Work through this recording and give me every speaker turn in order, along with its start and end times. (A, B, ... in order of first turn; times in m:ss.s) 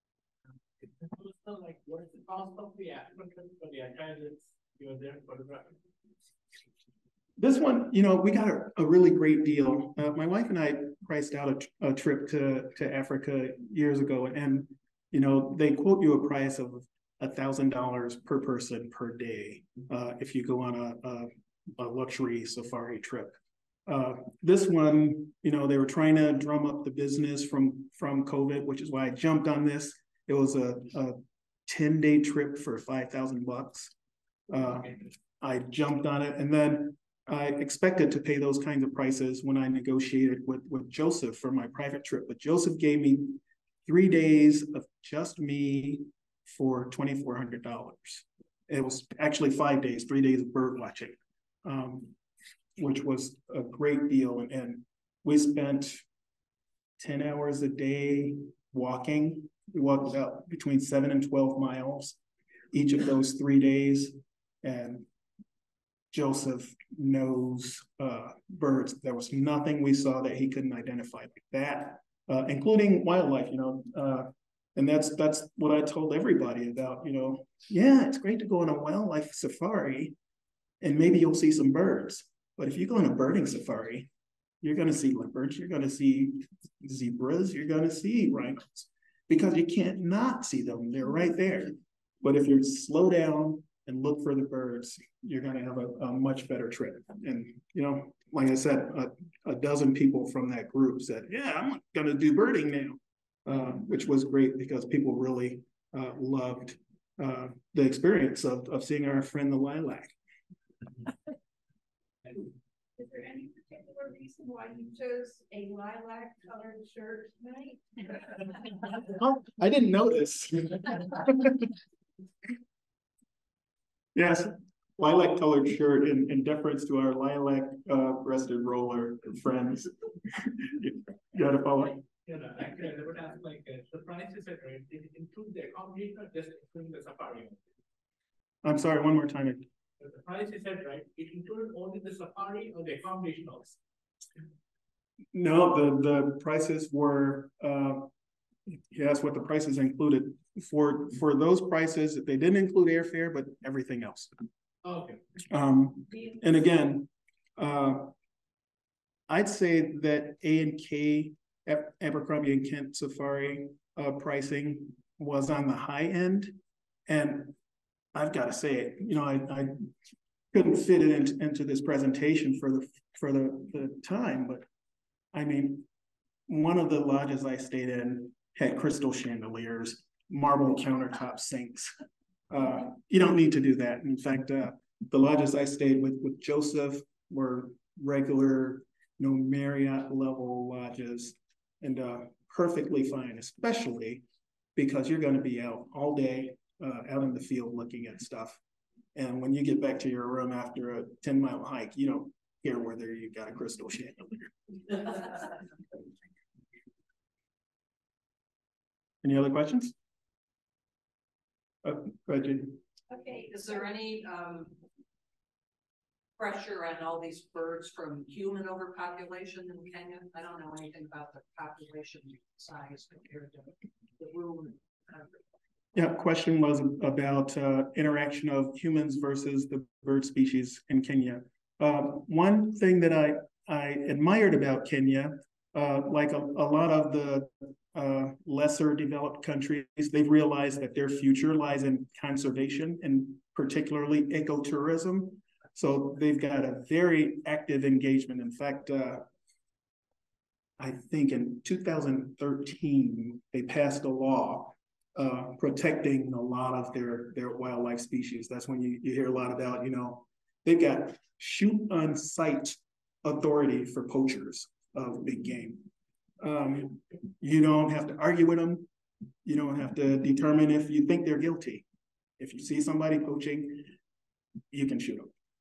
0:00.8-0:05.8 A
0:07.4-0:33.9 B
0:34.5-0:52.1 B
0:52.8-0:56.0 B
0:57.0-1:02.2 B
1:02.7-1:05.1 B
1:06.1-1:20.2 B
1:20.8-1:24.1 B
1:24.6-1:50.2 B
1:53.0-1:58.1 C
1:59.0-2:01.7 B
2:04.1-2:12.0 B
2:12.2-2:17.6 A
2:18.6-2:19.6 B
2:20.0-2:23.8 A
2:25.3-2:28.1 B
2:28.7-2:34.3 B
2:34.8-2:35.2 A
2:35.5-2:38.1 B
2:39.3-2:47.5 B
2:48.1-2:49.9 B
2:50.5-2:54.6 B
2:55.3-2:55.9 B
2:56.5-3:01.9 B
3:02.5-3:14.2 B
3:14.8-3:18.6 B
3:19.1-3:25.3 B
3:29.2-3:29.9 B
3:31.8-3:32.8 B
3:33.1-3:33.8 C
3:33.4-3:34.8 D
3:36.4-3:45.3 D
3:45.9-4:09.3 B
4:10.8-4:25.9 B
4:26.4-4:28.9 B
4:29.4-4:31.9 B
4:32.4-4:33.9 B
4:34.7-4:35.3 B